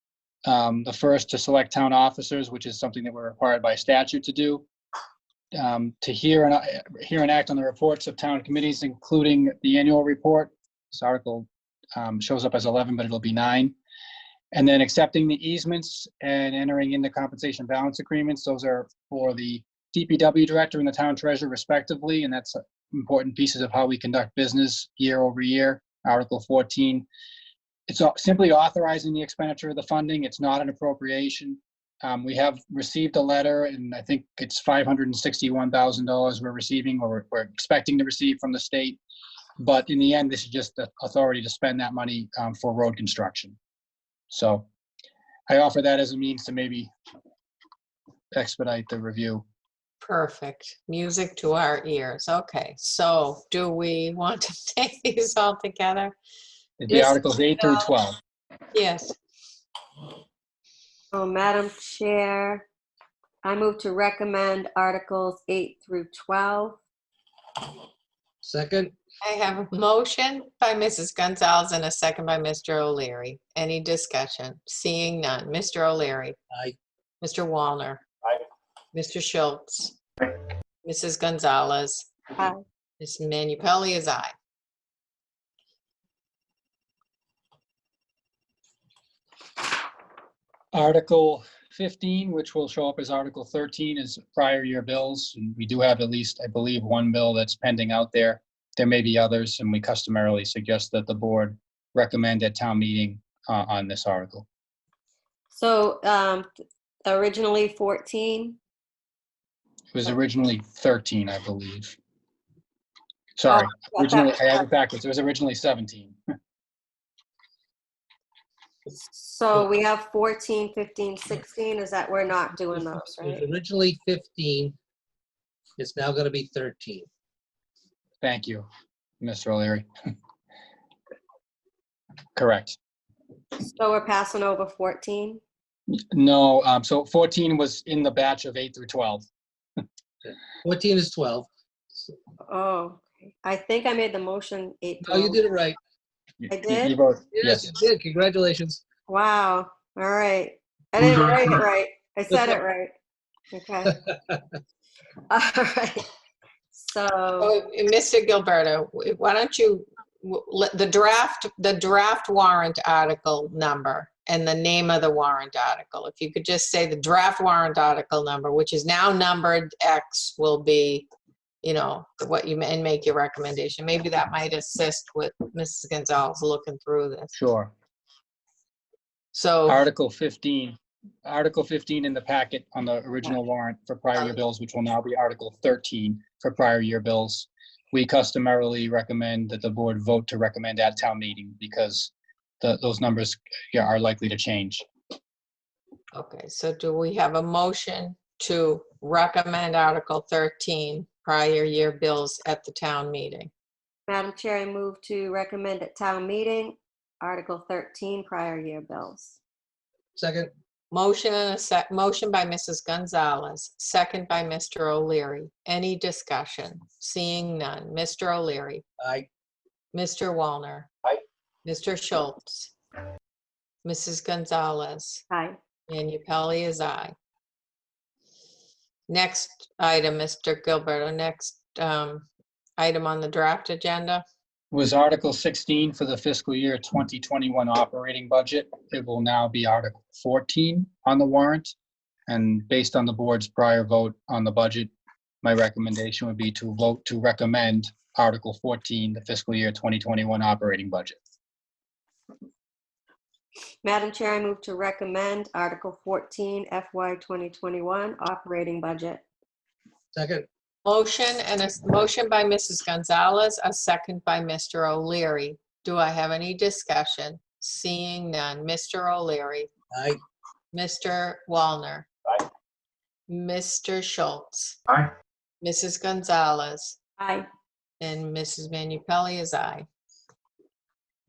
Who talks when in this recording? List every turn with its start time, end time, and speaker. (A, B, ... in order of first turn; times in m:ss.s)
0:00.5-0:04.7 A
0:05.6-0:13.7 A
0:14.5-0:27.1 A
0:27.9-0:39.0 A
0:39.6-0:43.6 A
0:44.3-0:44.7 A
0:45.5-0:46.9 A
0:48.3-0:49.4 A
0:50.0-0:56.2 B
0:56.8-0:58.2 A
0:56.9-0:57.2 B
0:58.7-0:59.2 B
1:01.1-1:02.6 C
1:03.4-1:06.8 C
1:08.4-1:08.9 D
1:09.2-1:16.4 B
1:17.2-1:18.0 B
1:18.9-1:20.0 B
1:20.8-1:22.1 B
1:22.4-1:22.6 C
1:23.0-1:24.3 B
1:30.7-1:44.5 A
1:45.5-1:46.5 C
1:47.1-1:48.6 C
1:49.9-1:52.0 A
1:53.4-1:56.2 A
1:53.5-1:54.6 C
1:59.1-2:03.4 C
2:02.8-2:04.8 D
2:05.8-2:07.1 D
2:08.2-2:08.7 A
2:09.2-2:09.9 A
2:12.4-2:12.8 A
2:13.6-2:15.4 C
2:15.9-2:19.3 A
2:20.2-2:22.2 D
2:22.5-2:25.4 C
2:25.0-2:25.8 D
2:26.4-2:27.7 A
2:26.5-2:27.0 C
2:27.3-2:28.8 D
2:29.1-2:32.9 C
2:33.5-2:34.0 C
2:35.3-2:36.1 C
2:36.7-2:37.5 C
2:37.4-2:51.1 B
2:51.6-2:57.4 B
2:57.4-2:57.7 A
2:59.3-2:59.8 B
2:59.7-3:14.9 A
3:16.1-3:23.5 B
3:24.1-3:29.4 C
3:30.2-3:30.5 D
3:30.9-3:38.8 B
3:39.0-3:39.3 D
3:39.9-3:40.9 B
3:41.6-3:42.7 B
3:43.8-3:45.2 B
3:45.3-3:45.6 C
3:45.9-3:47.2 B
3:49.1-3:52.3 B
3:52.8-3:54.2 B
3:54.7-4:01.7 A
4:02.3-4:11.2 A
4:13.8-4:19.2 C
4:20.1-4:20.5 D
4:20.8-4:29.7 B
4:29.9-4:30.2 D
4:30.7-4:32.1 B
4:33.3-4:34.8 B
4:35.6-4:37.0 B
4:37.2-4:37.5 C
4:38.0-4:39.9 B